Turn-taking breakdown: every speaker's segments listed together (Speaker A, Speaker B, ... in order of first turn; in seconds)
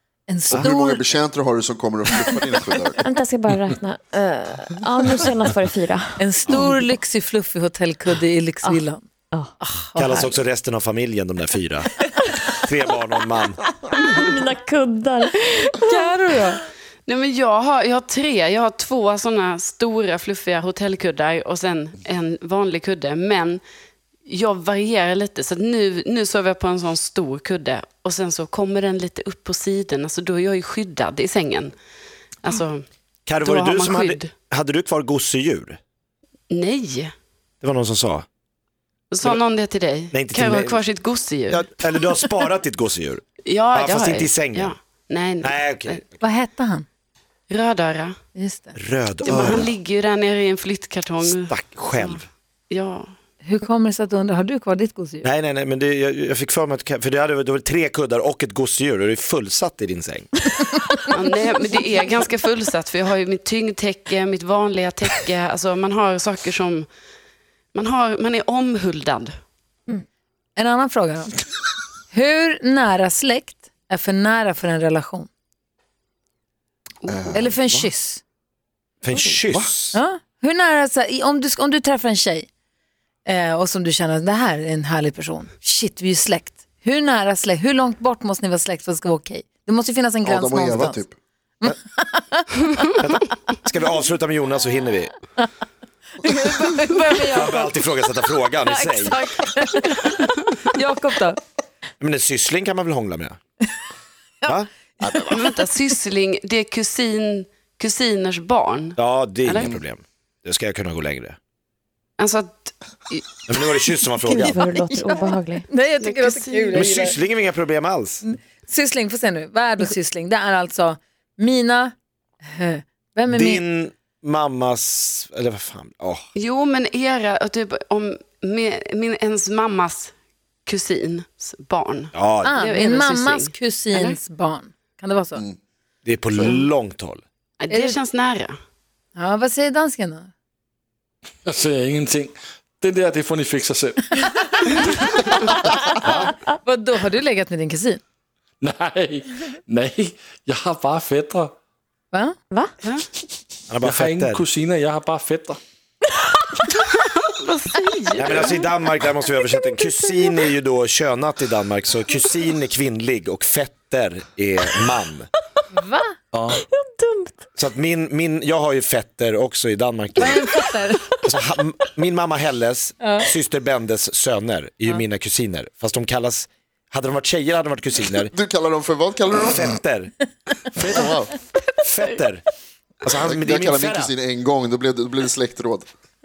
Speaker A: 0.3-1.0, 6.2-9.1, 9.6-10.3, 15.8-16.6, 46.2-46.9, 48.3-48.8, 53.4-55.2, 70.5-71.4, 72.1-75.3, 77.3-78.2, 79.9-82.5, 83.2-91.0, 91.6-92.9, 96.2-97.8, 98.6-101.4, 104.4-105.4, 114.4-117.1, 118.2-123.6, 132.4-135.4, 137.7-138.0, 139.1-140.3, 144.6-144.9, 146.6-148.0, 152.1-152.4, 165.7-166.1, 170.2-171.1, 173.0-173.3
Speaker B: 0.5-3.0, 77.1-77.9, 79.3-79.7, 90.2-91.1, 178.3-179.8, 180.7-181.3, 183.2-185.8
Speaker C: 3.0-6.7, 8.6-9.5, 13.9-15.9, 114.3-115.7
Speaker D: 10.0-11.9, 12.5-13.6, 33.2-35.8, 37.6-38.2, 40.1-40.8, 41.5-44.7, 45.4-46.1, 48.8-49.7, 51.2-52.2, 55.2-60.4, 79.0-80.0, 93.0-95.1, 97.2-99.2, 102.0-103.4, 104.5-105.3, 109.0-111.4, 113.5-114.6, 116.7-118.2, 123.3-126.2, 132.1-132.5, 136.0-137.2, 153.7-154.4, 158.1-165.3, 167.6-170.4, 171.2-178.3, 179.3-180.1, 181.8-182.4, 183.0-184.1
Speaker E: 17.1-23.6, 24.2-31.7, 32.4-32.8, 33.4-34.3, 36.5-37.1, 39.1-41.7, 43.4-46.0, 47.5-48.2, 49.2-53.1, 61.1-66.9, 67.7-69.3, 77.0-77.5, 100.0-100.5, 105.3-109.8, 112.2-113.4, 116.0-117.1, 126.3-134.2, 137.6-138.6, 156.9-158.6, 181.6-182.1
Speaker F: 141.4-146.3, 148.6-151.5, 153.8-155.6, 166.3-166.6